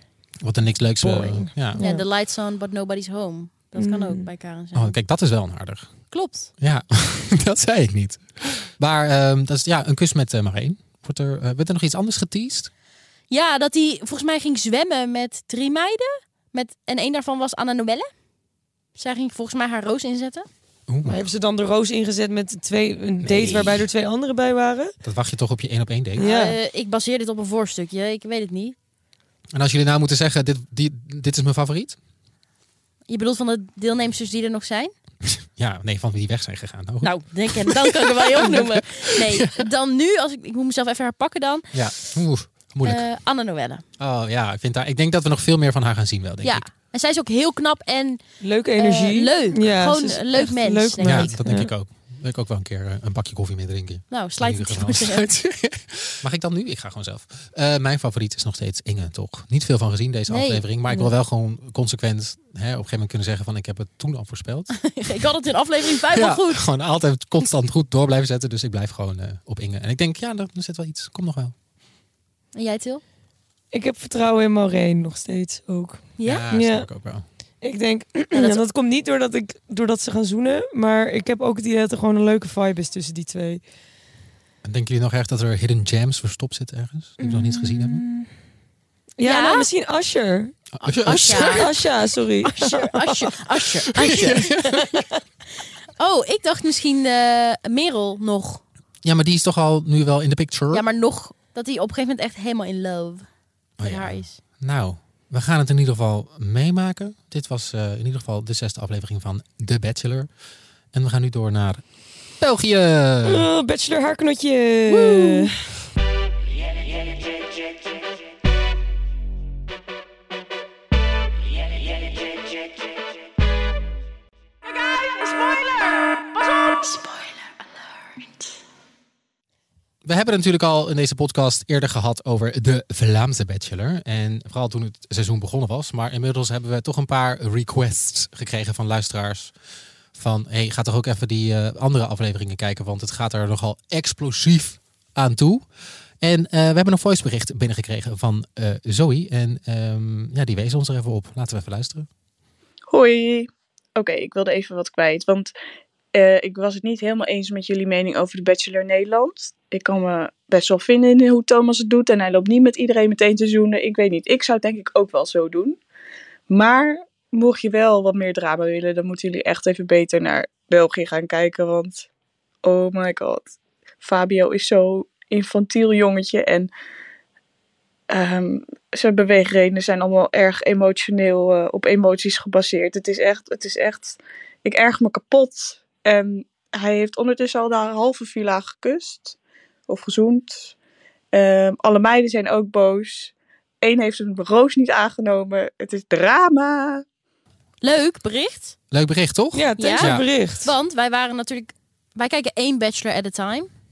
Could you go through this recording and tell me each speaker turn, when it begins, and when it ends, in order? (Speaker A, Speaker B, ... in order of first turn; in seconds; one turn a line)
Speaker A: 0.4-1.8
Speaker B: 1.0-2.0
Speaker C: 1.8-5.0
Speaker B: 3.8-4.3
Speaker A: 4.8-5.9
Speaker C: 6.1-6.5
Speaker A: 6.6-12.7
Speaker C: 13.3-18.1
Speaker C: 19.0-20.5
Speaker A: 20.9-21.3
Speaker B: 21.1-24.9
Speaker A: 23.2-23.9
Speaker A: 25.0-26.3
Speaker C: 26.2-28.8
Speaker B: 26.2-26.6
Speaker A: 29.5-32.0
Speaker C: 33.1-34.9
Speaker A: 35.2-39.6
Speaker C: 37.0-42.2
Speaker A: 41.7-43.0
Speaker C: 42.8-43.8
Speaker A: 44.0-46.6
Speaker C: 46.4-48.2
Speaker B: 48.4-51.7
Speaker C: 48.8-51.5
Speaker A: 51.0-64.8
Speaker C: 54.1-55.3
Speaker C: 60.3-61.1
Speaker C: 64.7-66.7
Speaker A: 66.1-71.5
Speaker C: 72.5-73.0
Speaker B: 73.7-76.9
Speaker C: 76.2-76.5
Speaker A: 76.2-77.2
Speaker B: 77.6-83.6
Speaker C: 78.3-78.6
Speaker A: 84.6-88.0
Speaker B: 87.2-88.3
Speaker B: 89.2-90.5
Speaker C: 89.2-89.7
Speaker A: 90.8-91.7
Speaker C: 90.8-91.7
Speaker B: 91.1-95.2
Speaker C: 92.4-94.8
Speaker A: 94.0-95.0
Speaker C: 96.0-98.6
Speaker A: 99.0-100.8
Speaker C: 100.7-103.2
Speaker A: 103.8-110.3
Speaker C: 103.8-104.4
Speaker A: 110.9-111.8
Speaker A: 112.4-113.5
Speaker B: 113.2-115.5
Speaker C: 114.9-115.5
Speaker C: 126.7-127.3
Speaker A: 130.0-139.5
Speaker A: 140.2-145.7
Speaker A: 146.2-152.1
Speaker D: 152.9-155.5
Speaker D: 156.1-165.8
Speaker D: 166.5-172.1
Speaker D: 172.6-176.7
Speaker D: 178.1-189.4
Speaker D: 189.9-190.7
Speaker D: 191.3-197.0
Speaker C: 197.8-198.8
Speaker A: 198.9-200.3
Speaker B: 199.5-200.7
Speaker C: 199.8-203.7